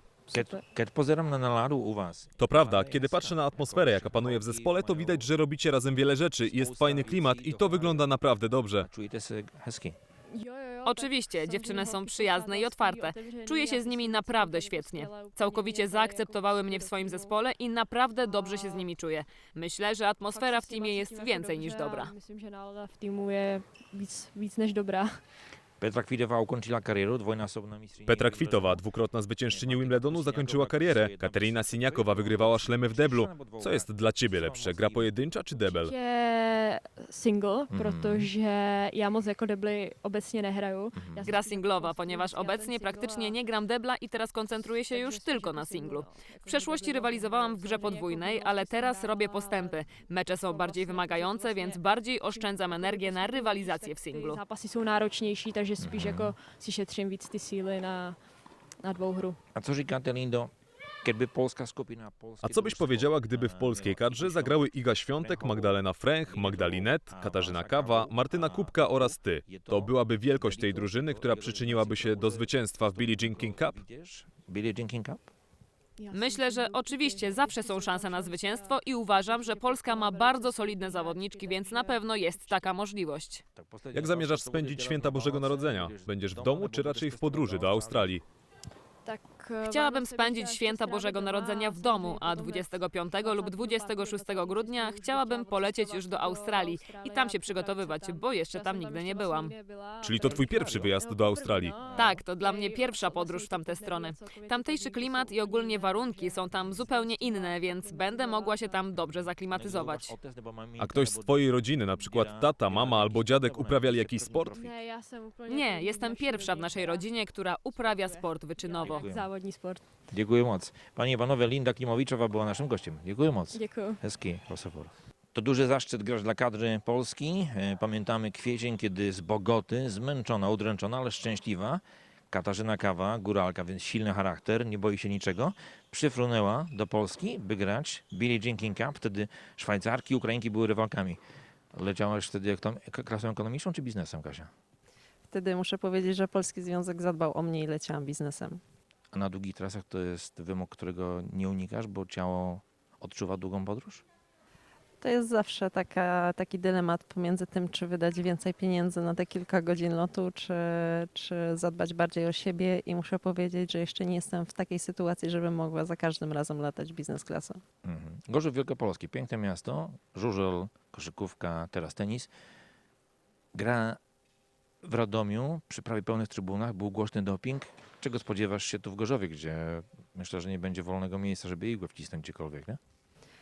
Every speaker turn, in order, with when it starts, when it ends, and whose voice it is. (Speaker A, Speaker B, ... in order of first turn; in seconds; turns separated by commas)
Speaker A: 0.3-0.7, Speaker B: 0.3-5.3, Speaker C: 2.4-8.9, Speaker B: 6.4-8.3, Speaker B: 8.8-10.0, Speaker A: 10.3-17.4, Speaker D: 10.9-22.1, Speaker A: 18.2-18.9, Speaker A: 20.3-25.2, Speaker B: 25.8-28.9, Speaker C: 28.1-35.9, Speaker B: 29.4-35.3, Speaker A: 35.6-43.4, Speaker B: 37.7-38.3, Speaker B: 40.9-41.3, Speaker D: 41.2-54.4, Speaker A: 44.5-59.4, Speaker B: 55.8-56.4, Speaker B: 59.5-60.5, Speaker B: 61.0-75.3, Speaker C: 62.4-73.8, Speaker A: 76.0-82.7, Speaker D: 76.1-83.4, Speaker B: 83.5-88.2, Speaker C: 83.9-88.2, Speaker A: 89.0-109.1, Speaker D: 89.6-99.6, Speaker C: 100.0-101.8, Speaker B: 100.2-100.9, Speaker B: 101.8-102.2, Speaker D: 101.9-110.1, Speaker B: 109.0-114.8, Speaker C: 110.8-114.5, Speaker A: 114.5-119.8, Speaker D: 115.5-119.1, Speaker B: 118.8-119.3, Speaker B: 120.1-141.2, Speaker A: 123.5-124.0, Speaker B: 141.7-144.5, Speaker E: 145.3-148.6, Speaker B: 149.1-154.0, Speaker E: 155.0-167.6, Speaker B: 167.8-172.3, Speaker B: 173.5-174.0, Speaker B: 174.8-182.8